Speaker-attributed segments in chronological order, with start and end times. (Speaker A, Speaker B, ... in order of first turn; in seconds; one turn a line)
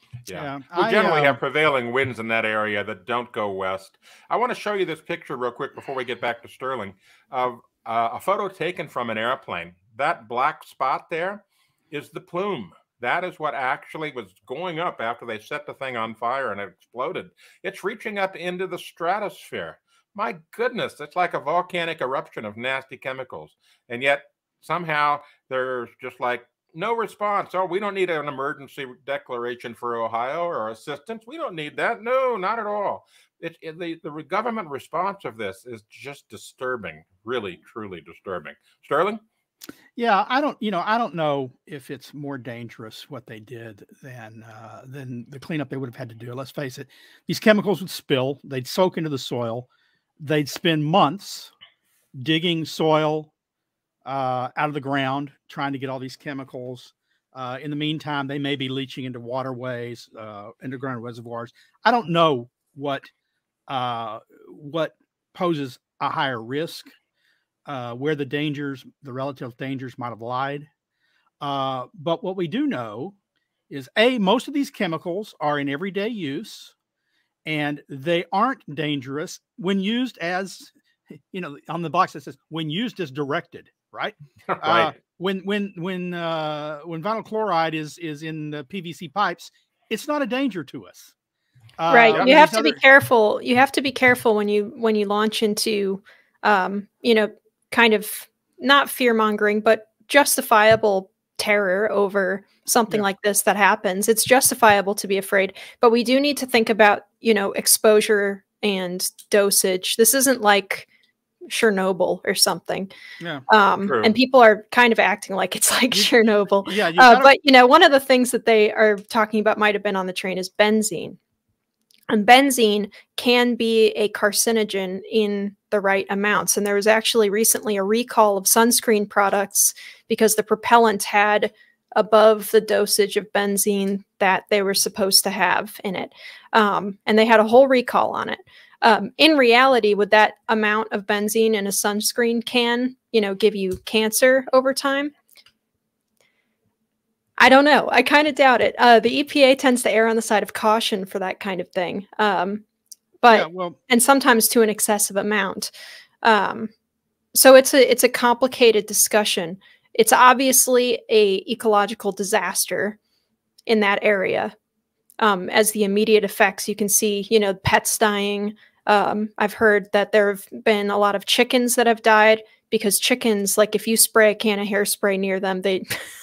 Speaker A: 0.2-39.2
Speaker B: 0.3-1.4
Speaker B: 40.0-49.7
Speaker B: 50.2-51.5
Speaker B: 52.1-53.3
Speaker B: 54.0-63.1
Speaker B: 63.7-66.9
Speaker B: 67.7-70.7
Speaker B: 71.4-73.2
Speaker B: 73.7-76.7
Speaker B: 77.5-91.1
Speaker A: 84.5-85.0
Speaker B: 91.8-92.8
Speaker C: 91.9-110.9
Speaker C: 111.5-112.9
Speaker B: 113.2-113.4
Speaker C: 113.5-121.2
Speaker A: 113.8-114.1
Speaker B: 115.9-117.3
Speaker C: 122.1-145.1
Speaker C: 147.4-152.6
Speaker C: 153.2-155.7
Speaker B: 153.3-153.8
Speaker C: 156.2-156.7
Speaker C: 157.3-163.0
Speaker C: 163.7-164.5
Speaker C: 165.2-176.1